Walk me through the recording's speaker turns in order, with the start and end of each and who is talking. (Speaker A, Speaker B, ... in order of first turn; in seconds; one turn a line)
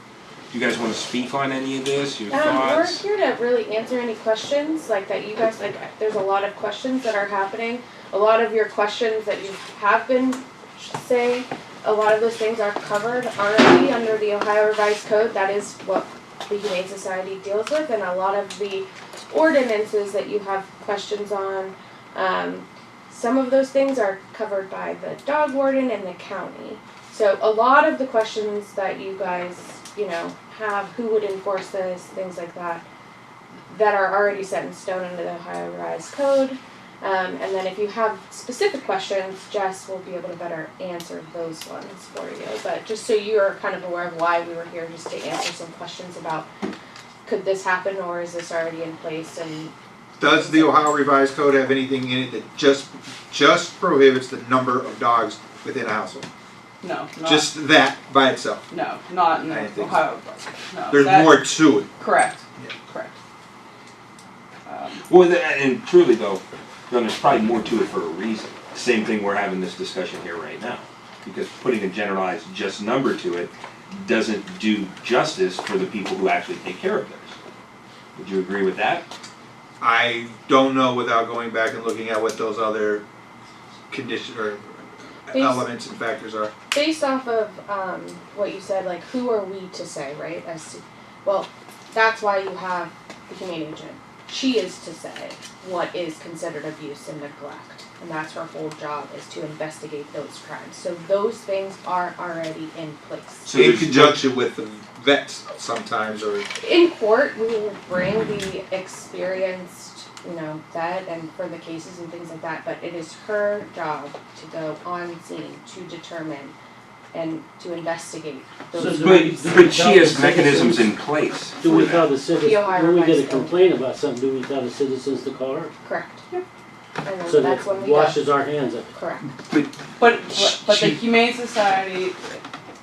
Speaker A: 0.5-3.0
Speaker B: 2.3-32.9
Speaker B: 33.7-46.5
Speaker B: 47.2-50.7
Speaker C: 50.2-56.3
Speaker D: 56.8-57.5
Speaker C: 57.2-58.6
Speaker D: 58.7-63.1
Speaker C: 59.5-60.0
Speaker C: 60.9-61.9
Speaker D: 64.7-65.0
Speaker A: 65.0-77.3
Speaker A: 78.2-79.0
Speaker C: 79.8-83.0
Speaker C: 83.9-86.5
Speaker B: 85.3-85.7
Speaker B: 86.7-103.5
Speaker A: 103.4-104.3
Speaker C: 103.5-106.5
Speaker B: 106.6-116.5
Speaker B: 117.1-119.6
Speaker E: 118.7-120.9
Speaker A: 118.9-122.2
Speaker E: 121.6-125.7
Speaker B: 122.4-123.5
Speaker B: 125.8-126.2
Speaker B: 127.0-128.2
Speaker E: 127.2-128.9
Speaker B: 128.9-129.3
Speaker D: 130.0-132.4
Speaker A: 130.3-131.0